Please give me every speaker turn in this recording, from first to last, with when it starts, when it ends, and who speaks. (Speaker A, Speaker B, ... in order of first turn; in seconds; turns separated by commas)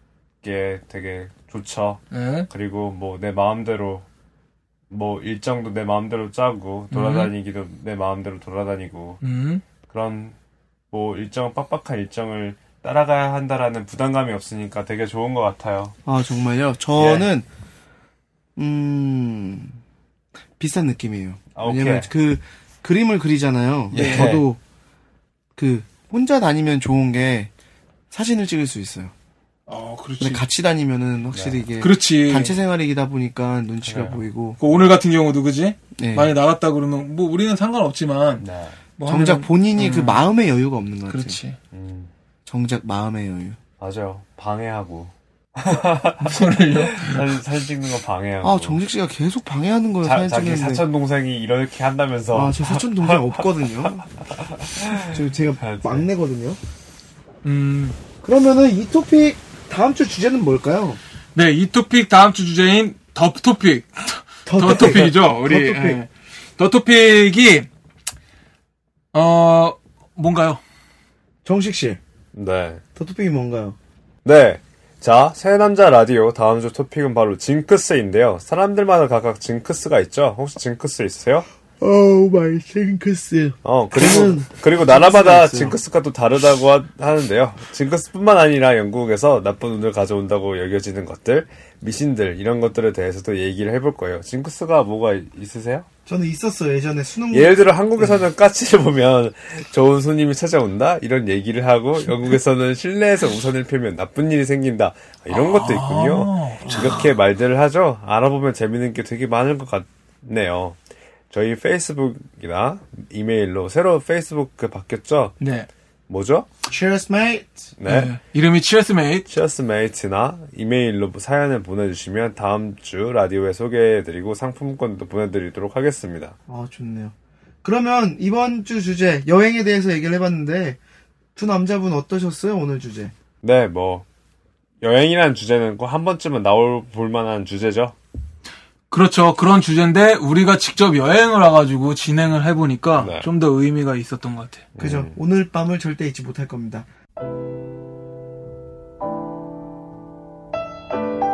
Speaker A: 0.4-4.1, Speaker B: 2.1-2.5, Speaker A: 4.9-9.2, Speaker B: 6.9-7.3, Speaker B: 9.2-9.6, Speaker A: 9.9-10.3, Speaker A: 10.9-16.0, Speaker C: 16.1-17.5, Speaker A: 17.0-17.3, Speaker C: 18.6-19.8, Speaker C: 20.6-24.6, Speaker A: 21.6-22.1, Speaker A: 23.9-24.5, Speaker C: 25.6-27.5, Speaker C: 28.1-29.1, Speaker B: 29.7-30.4, Speaker C: 30.2-34.6, Speaker A: 31.3-31.6, Speaker B: 31.8-32.6, Speaker A: 33.8-34.2, Speaker B: 34.6-38.5, Speaker C: 36.0-36.3, Speaker A: 38.4-38.8, Speaker B: 39.0-40.2, Speaker C: 39.0-41.4, Speaker B: 41.1-41.6, Speaker A: 41.7-42.1, Speaker C: 42.5-43.6, Speaker A: 43.8-48.8, Speaker B: 46.2-47.3, Speaker C: 48.4-50.9, Speaker A: 50.0-56.1, Speaker C: 52.3-54.1, Speaker C: 55.0-56.6, Speaker B: 57.4-58.0, Speaker C: 58.2-61.0, Speaker B: 61.4-67.7, Speaker C: 64.5-66.0, Speaker B: 69.1-70.6, Speaker C: 71.5-72.0, Speaker A: 72.3-72.8, Speaker C: 73.0-73.8, Speaker A: 74.2-81.5, Speaker C: 81.8-85.8, Speaker A: 83.6-95.9, Speaker C: 96.1-97.5, Speaker A: 97.3-110.8, Speaker B: 105.3-107.1, Speaker A: 111.3-115.3, Speaker B: 115.4-115.7, Speaker A: 116.1-116.5, Speaker C: 116.7-117.6, Speaker A: 117.8-118.2, Speaker B: 117.9-119.3, Speaker A: 119.3-126.3, Speaker C: 126.5-130.8, Speaker C: 131.4-133.1, Speaker A: 133.4-134.1, Speaker A: 134.8-137.9, Speaker B: 138.9-144.6, Speaker A: 143.0-143.3, Speaker A: 144.8-145.2, Speaker C: 144.8-146.9